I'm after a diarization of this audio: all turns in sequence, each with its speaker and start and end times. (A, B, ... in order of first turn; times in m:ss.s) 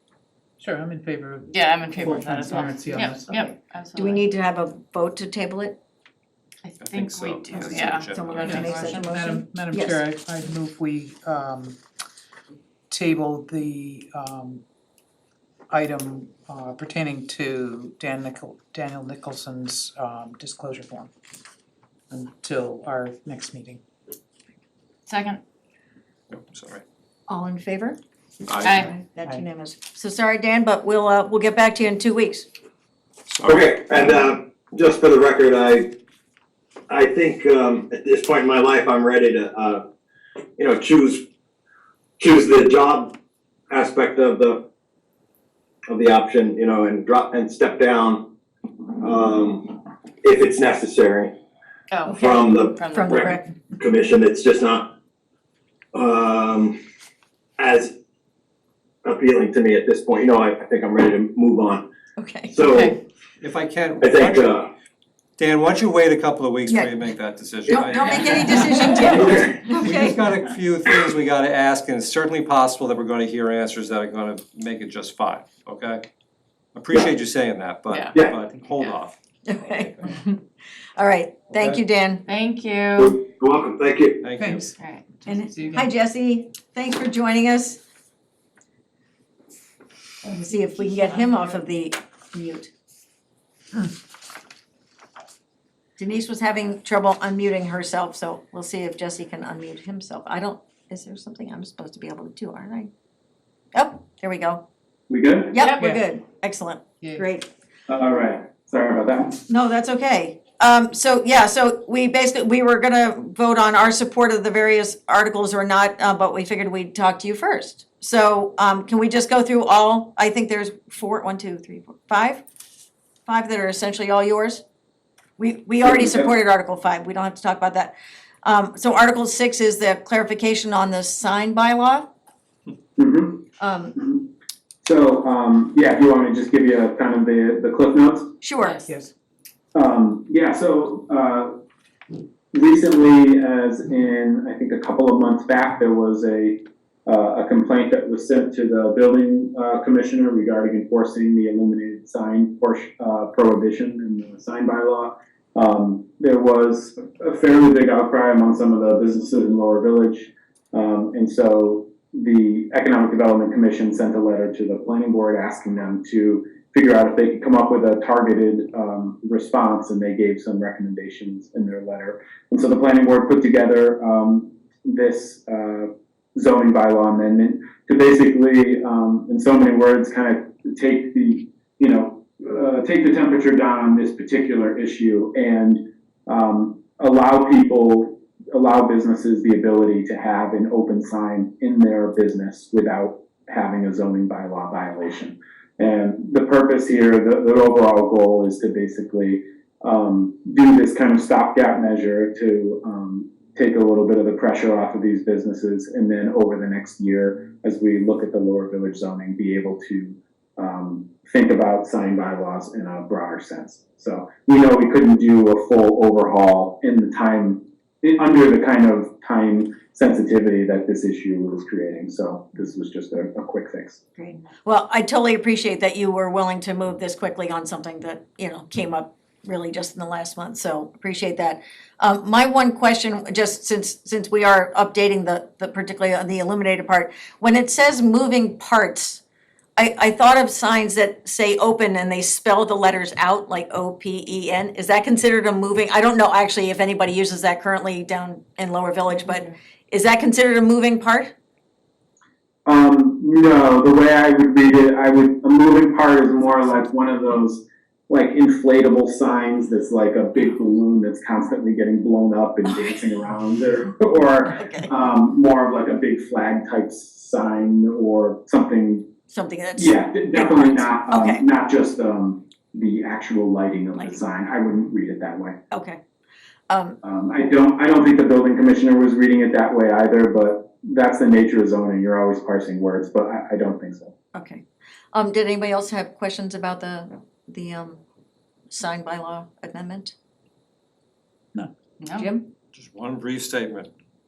0:00.6-0:03.5 A
0:01.5-0:04.2 B
0:04.0-0:05.8 C
0:06.6-0:09.2 B
0:06.8-0:08.7 D
0:08.0-0:10.0 C
0:08.4-0:11.8 A
0:12.9-0:14.6 A
0:15.7-0:21.1 A
0:22.1-0:23.8 A
0:25.1-0:25.4 B
0:26.3-0:26.8 D
0:27.3-0:28.0 C
0:28.5-0:28.9 D
0:28.6-0:28.9 B
0:28.6-0:32.5 C
0:29.2-0:29.5 A
0:33.3-0:33.7 D
0:33.4-0:35.9 E
0:36.9-0:39.8 E
0:40.6-0:41.2 E
0:42.2-0:43.2 E
0:43.7-0:44.7 E
0:45.9-0:48.3 E
0:49.0-0:51.4 E
0:51.9-0:53.4 B
0:52.1-0:54.9 E
0:52.9-0:53.5 C
0:55.9-0:56.8 E
0:57.6-0:57.9 E
0:59.0-1:01.8 E
1:02.2-1:02.5 C
1:02.5-1:03.0 E
1:02.7-1:03.0 B
1:03.4-1:04.6 D
1:04.0-1:04.7 E
1:05.4-1:16.1 D
1:06.7-1:07.0 C
1:07.6-1:10.2 C
1:09.1-1:09.6 E
1:16.7-1:19.9 D
1:17.9-1:18.2 B
1:19.4-1:20.4 C
1:21.0-1:22.2 C
1:22.2-1:23.2 B
1:23.0-1:24.2 E
1:24.2-1:24.6 D
1:24.3-1:25.9 A
1:24.8-1:25.1 B
1:25.2-1:27.8 C
1:30.2-1:32.7 C
1:36.0-1:42.9 C
1:43.7-1:44.6 C
1:45.1-1:45.6 F
1:45.5-1:47.5 C
1:45.6-1:45.8 B
1:45.8-1:46.0 A
1:47.0-1:47.3 A
1:47.9-1:49.4 F
1:49.5-2:02.4 C
2:03.2-2:04.6 C
2:05.4-2:12.1 C
2:05.8-2:06.3 F
2:13.0-2:13.4 F
2:13.6-2:13.9 C
2:14.0-2:14.3 F
2:14.8-2:18.3 F
2:18.4-2:18.8 C
2:18.6-2:18.9 B
2:19.7-2:21.5 F
2:22.5-3:44.0 F
3:44.2-3:59.2 C
3:59.8-4:11.3 C
4:12.6-4:29.1 F
4:24.5-4:24.9 C
4:29.3-4:31.4 C
4:29.8-4:35.6 F
4:35.7-4:36.0 C
4:36.7-4:37.0 C
4:37.0-4:44.1 F
4:44.3-4:48.0 C
4:48.7-4:50.1 C
4:52.0-4:52.3 B
4:52.1-4:52.4 C
4:52.7-4:53.9 D